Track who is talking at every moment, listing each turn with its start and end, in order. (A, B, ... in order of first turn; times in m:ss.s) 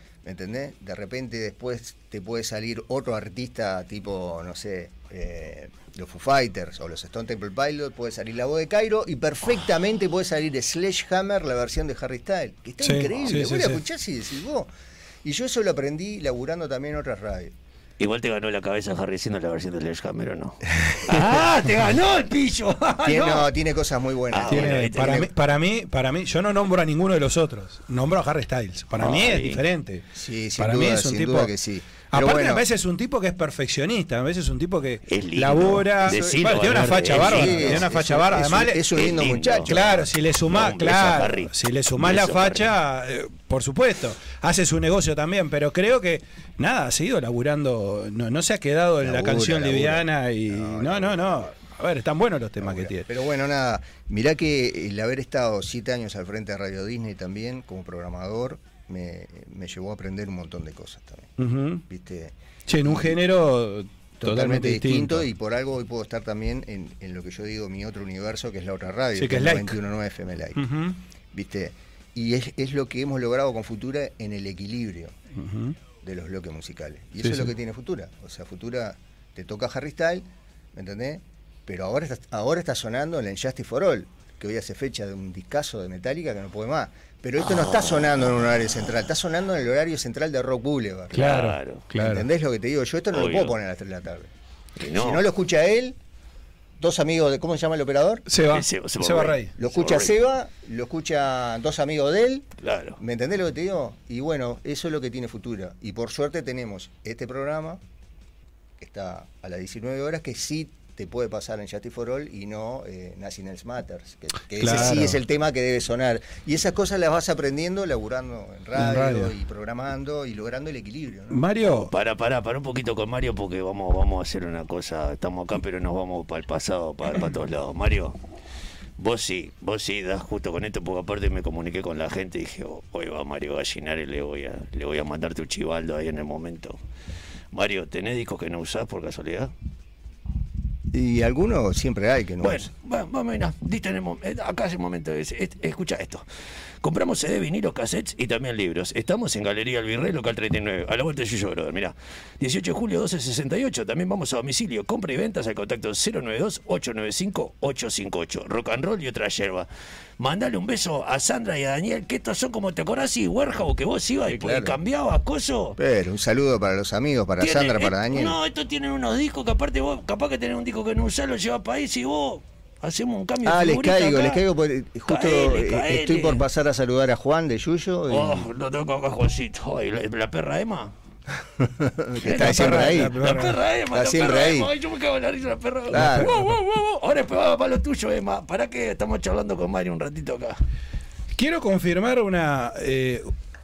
0:00.2-0:14.7 A
0:12.8-0:13.8 B
0:15.2-0:17.5 A
0:18.0-0:23.5 C
0:20.9-0:21.2 A
0:23.0-0:25.3 A
0:24.3-0:25.3 C
0:24.4-0:30.1 B
0:29.0-0:29.6 C
0:30.1-0:32.6 A
0:30.6-0:31.5 B
0:32.1-0:39.1 B
0:35.1-0:37.9 C
0:36.0-0:40.1 A
0:38.9-0:39.7 C
0:39.6-0:53.1 B
0:40.5-0:42.7 C
0:49.0-0:51.6 A
0:52.6-1:01.4 A
1:01.4-1:01.8 B
1:01.9-1:03.2 A
1:02.7-1:05.3 B
1:04.2-1:10.7 A
1:09.2-1:09.8 B
1:10.6-1:11.0 B
1:11.3-1:15.2 A
1:15.4-1:15.8 B
1:16.0-1:31.4 A
1:17.2-1:17.5 B
1:31.1-1:31.8 C
1:31.1-1:32.3 B
1:31.9-1:34.3 A
1:33.1-1:33.6 C
1:34.8-1:35.2 C
1:35.0-1:36.0 A
1:36.8-1:38.2 A
1:38.3-1:39.5 B
1:38.5-1:40.1 C
1:39.6-1:42.5 A
1:42.6-1:43.0 C
1:43.0-1:47.8 A
1:48.8-2:01.4 A
1:54.6-1:55.2 B
1:58.7-1:59.3 B
2:01.3-2:01.9 B
2:01.7-2:08.2 C
2:09.0-2:16.8 C
2:17.5-2:19.5 C
2:20.9-2:22.7 A
2:22.4-2:26.2 C
2:26.8-2:39.7 C
2:40.2-2:45.8 C
2:44.3-2:44.8 A
2:45.8-2:48.4 A
2:47.4-2:54.4 C
2:53.4-2:58.5 A
2:55.1-2:56.4 C
2:58.1-3:00.9 C
3:01.6-3:03.2 A
3:02.2-3:10.6 C
3:02.3-3:03.6 B
3:03.9-3:04.7 A
3:05.9-3:06.4 A
3:05.9-3:06.6 B
3:11.3-3:13.3 B